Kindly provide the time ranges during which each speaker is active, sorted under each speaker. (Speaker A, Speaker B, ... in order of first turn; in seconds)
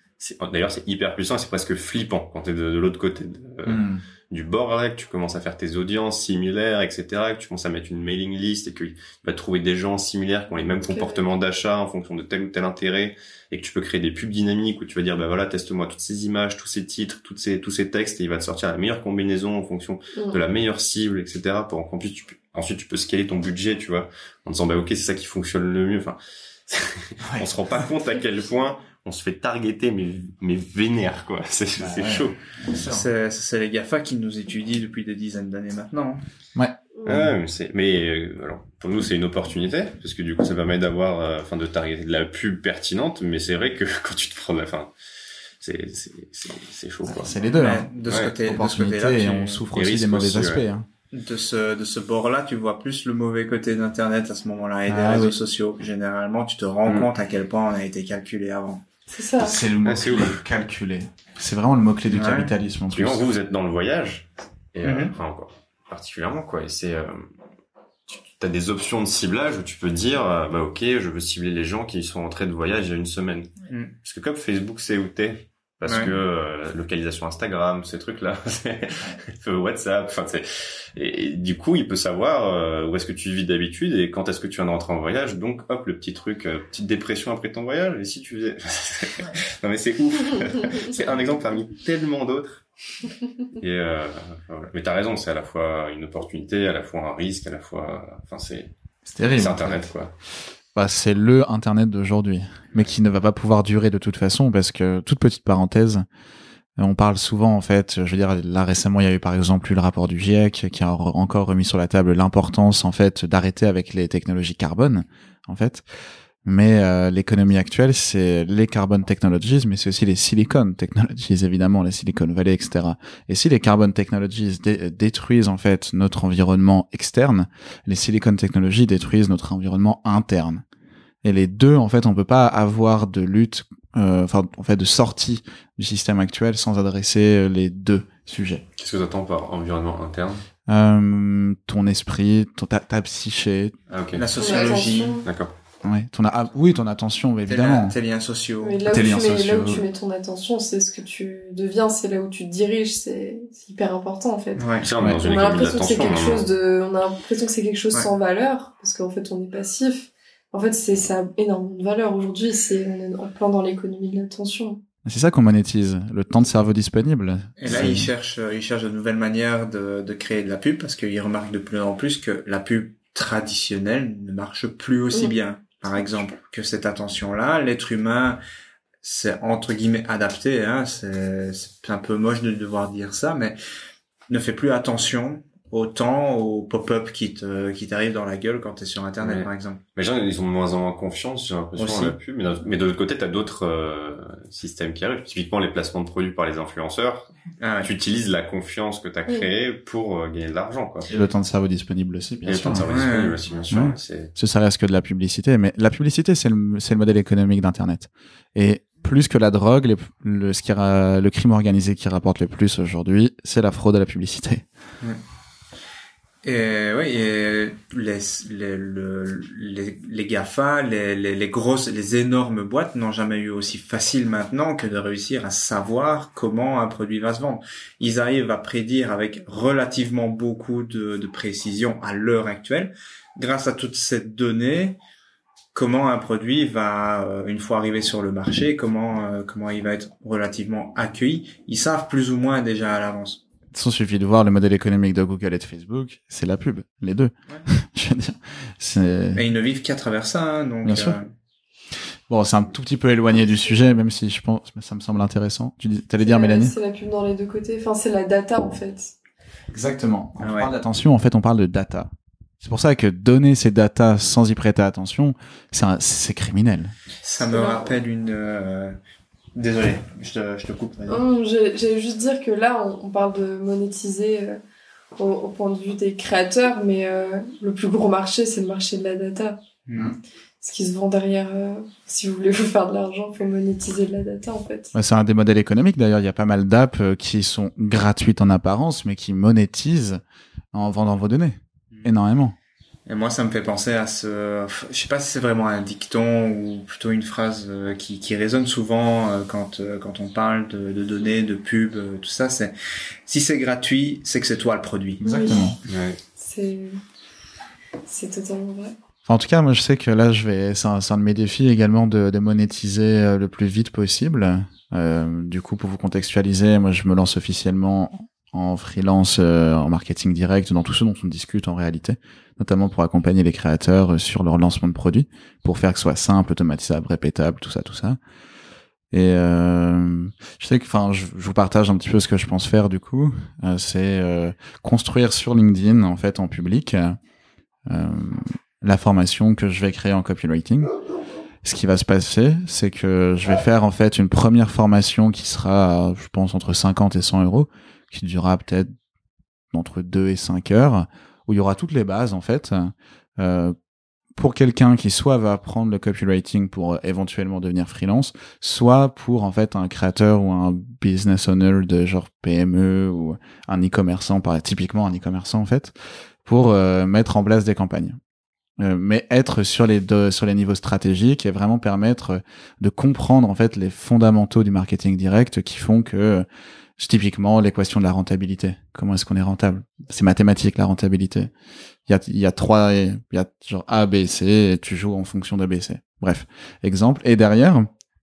Speaker A: 0.2-32.4, 37.0-44.9, 45.6-47.4, 48.1-48.3, 49.7-50.6, 59.8-60.4, 62.9-67.3, 68.1-92.6, 93.6-98.7, 99.3-100.1, 138.8-140.4, 143.9-144.7, 145.2-145.5, 154.8-156.5, 189.2-197.3, 197.8-201.1, 202.4-204.3, 305.9-306.2
Speaker B: 3.6-4.0, 31.8-33.0, 36.5-37.2, 47.0-50.9, 54.9-55.3, 59.4-63.2, 99.0-99.9, 100.7-106.0, 106.8-115.8, 116.4-130.6, 131.2-138.6, 140.7-143.7, 145.8-147.9, 148.9-149.8, 165.0-168.1, 201.1-202.9, 203.7-214.7, 243.7-249.4, 250.8-251.2, 252.3-256.7, 259.7-262.1, 262.6-266.9, 284.9-290.2, 290.7-292.6, 305.2-305.8, 309.2-328.2, 329.1-337.2, 337.9-340.9, 341.6-348.9, 349.7-353.8, 354.4-368.2, 368.8-376.4, 377.0-381.5, 382.1-387.9
Speaker C: 10.9-11.2, 59.1-59.6, 144.4-145.2, 148.6-164.8, 256.2-259.1, 267.4-267.9, 271.1-274.6, 275.1-279.6, 280.6-284.9, 305.2-305.7, 306.4-307.0, 308.1-308.9
Speaker D: 32.8-36.2, 47.6-49.6, 51.1-58.8, 62.1-62.5, 64.8-65.1, 73.7-73.9, 75.8-76.1, 144.1-145.2, 147.5-148.9, 154.6-154.9, 167.6-178.4, 179.0-183.6, 184.3-189.8, 191.8-192.2, 197.6-197.9, 202.8-203.4, 216.4-235.0, 235.7-243.4, 249.3-251.3, 260.4-260.7, 267.2-269.0, 269.5-271.2, 279.9-280.1, 293.1-302.7, 303.2-305.2